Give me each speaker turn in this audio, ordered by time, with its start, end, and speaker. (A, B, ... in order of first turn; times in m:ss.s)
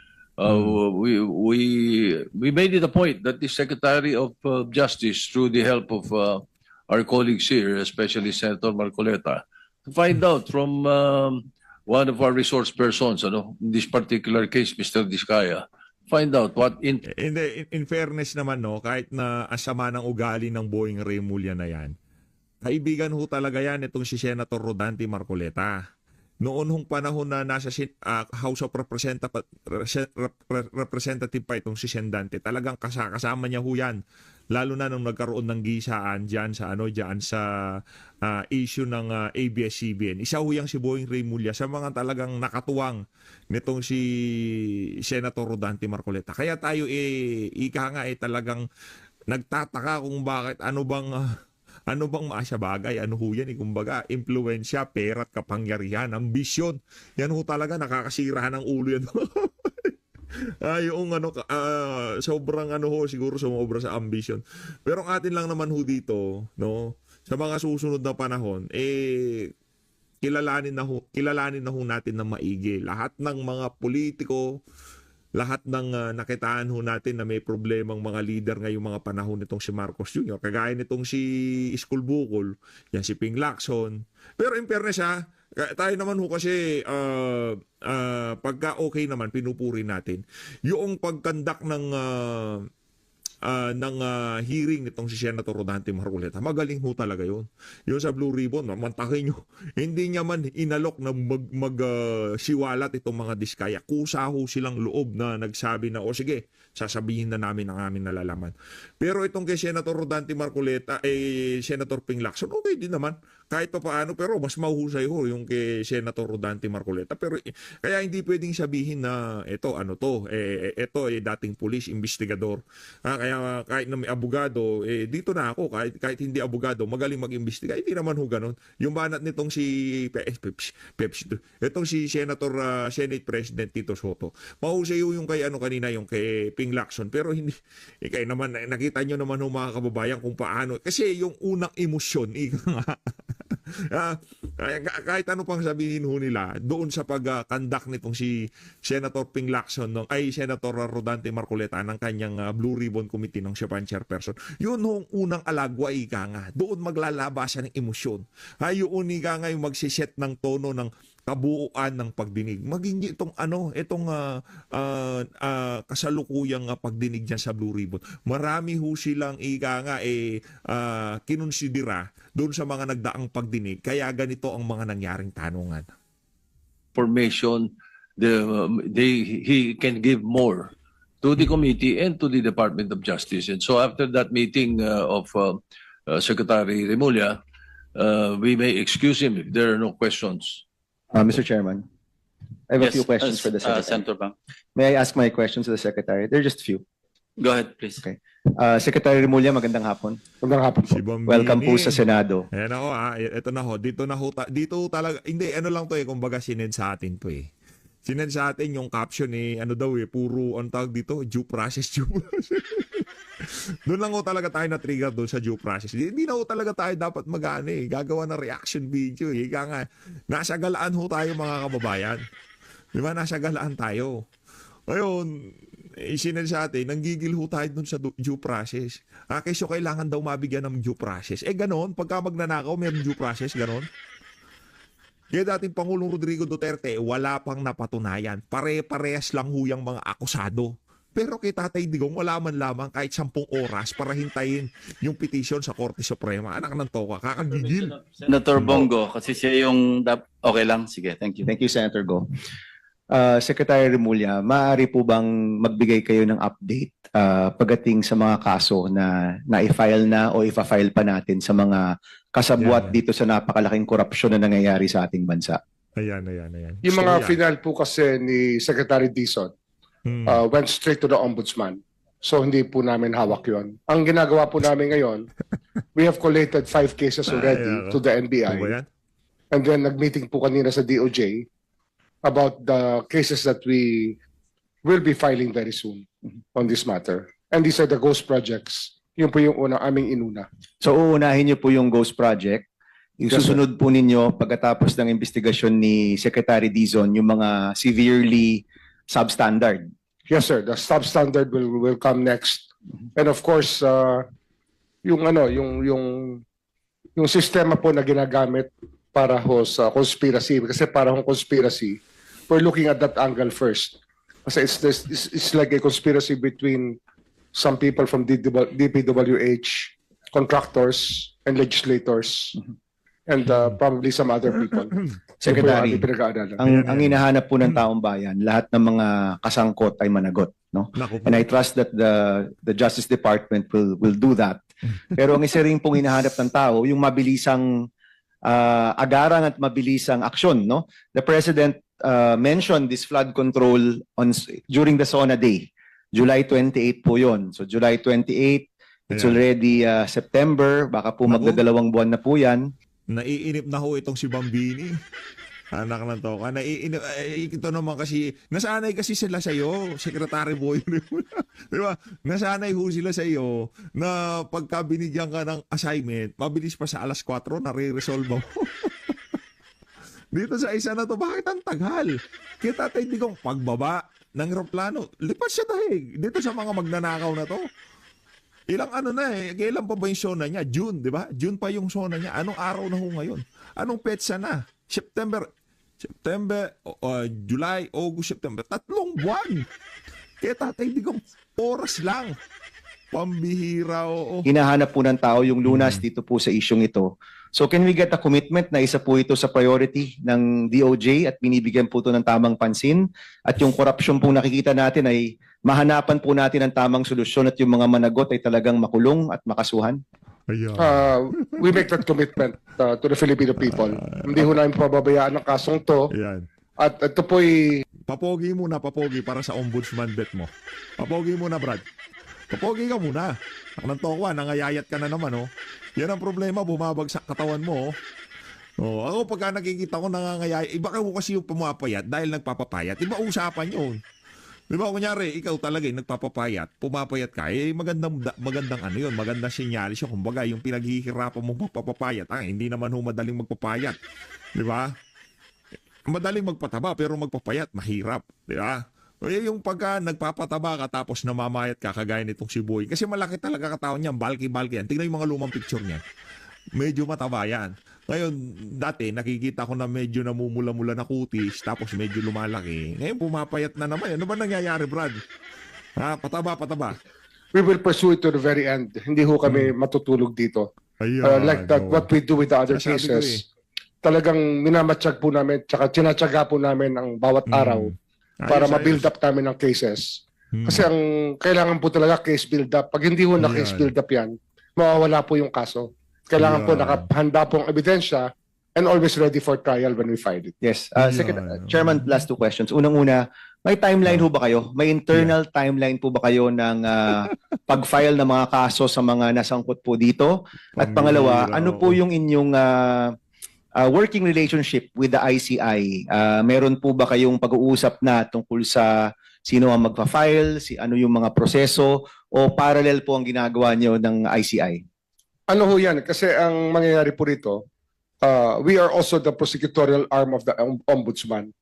0:00.4-0:17.0 A
0:00.5-0:00.8 B
0:17.1-0:21.9 B
0:22.6-0:25.7 B
0:26.4-0:34.0 B
0:34.5-0:37.4 B
0:38.2-0:43.0 B
0:43.5-0:44.0 B
0:45.1-0:47.1 B
0:47.6-0:48.6 B
0:49.3-0:51.1 B
0:51.9-0:59.9 B
1:00.7-1:09.5 B
1:10.2-1:14.4 B
1:15.4-1:32.6 B
1:33.5-2:22.9 B
2:23.5-2:28.3 B
2:28.8-2:44.2 B
2:44.7-2:55.8 B
2:56.9-3:07.4 A
3:08.0-3:10.6 A
3:11.1-3:11.8 C
3:12.7-3:14.0 C
3:12.8-3:14.3 D
3:14.8-3:16.8 C
3:17.4-3:18.0 D
3:18.0-3:20.2 C
3:20.4-3:21.0 E
3:20.9-3:22.0 B
3:21.3-3:22.4 C
3:22.5-3:27.5 B
3:28.0-3:42.2 B
3:43.0-3:44.1 B
3:44.9-3:45.3 B
3:46.0-3:53.9 B
3:55.3-4:08.9 B
4:08.1-4:11.5 D
4:11.4-4:12.2 C
4:13.1-4:25.6 C
4:22.6-4:22.9 B
4:26.0-4:27.4 B
4:26.8-4:29.5 E
4:30.1-4:30.4 B
4:30.3-4:35.3 E
4:35.9-4:38.7 E
4:37.3-4:38.9 B
4:39.5-4:41.4 E
4:42.2-4:44.2 E
4:44.8-4:50.5 E
4:50.8-4:52.6 C
4:53.2-4:59.9 C
4:53.3-4:53.6 E
5:00.3-5:04.2 E
5:05.0-5:06.4 E
5:07.2-5:17.0 E
5:17.5-5:22.6 E
5:23.3-5:26.6 E
5:23.5-5:23.8 B
5:24.6-5:26.0 B
5:25.4-5:26.0 C
5:26.6-5:34.6 C
5:26.6-5:27.2 B
5:31.0-5:31.4 B
5:35.2-5:37.6 C
5:38.4-5:52.7 C
5:49.1-5:49.4 B
5:51.3-5:51.6 B
5:53.1-5:54.9 B
5:55.7-6:09.1 B
6:10.3-6:17.6 B
6:18.7-6:25.5 B
6:26.0-6:29.6 B
6:30.4-6:32.3 B
6:33.1-6:34.5 B
6:34.4-6:50.0 C
6:35.7-6:36.0 B
6:50.5-6:51.8 B
6:50.8-6:56.1 E
6:53.6-6:54.6 B
6:56.1-6:56.4 B
6:56.8-6:57.8 E
6:58.1-7:01.9 B
7:02.5-7:07.9 B
7:08.8-7:14.0 B
7:14.7-7:24.0 B
7:24.6-7:24.9 B
7:26.1-7:36.0 B
7:36.8-7:45.2 B
7:46.0-7:47.0 B
7:47.5-7:50.7 E
7:49.4-7:49.7 B
7:51.0-7:52.1 B
7:51.2-7:53.4 E
7:52.7-7:53.4 B
7:54.0-7:57.9 E
7:57.5-7:59.1 B
7:58.5-8:10.5 E
8:00.5-8:00.9 B
8:03.4-8:03.9 B
8:06.4-8:07.0 B
8:10.6-8:23.1 C
8:11.0-8:12.0 B
8:20.8-8:22.0 B
8:23.8-8:28.9 C
8:29.5-8:34.8 C
8:35.5-8:37.6 E
8:38.2-8:41.5 E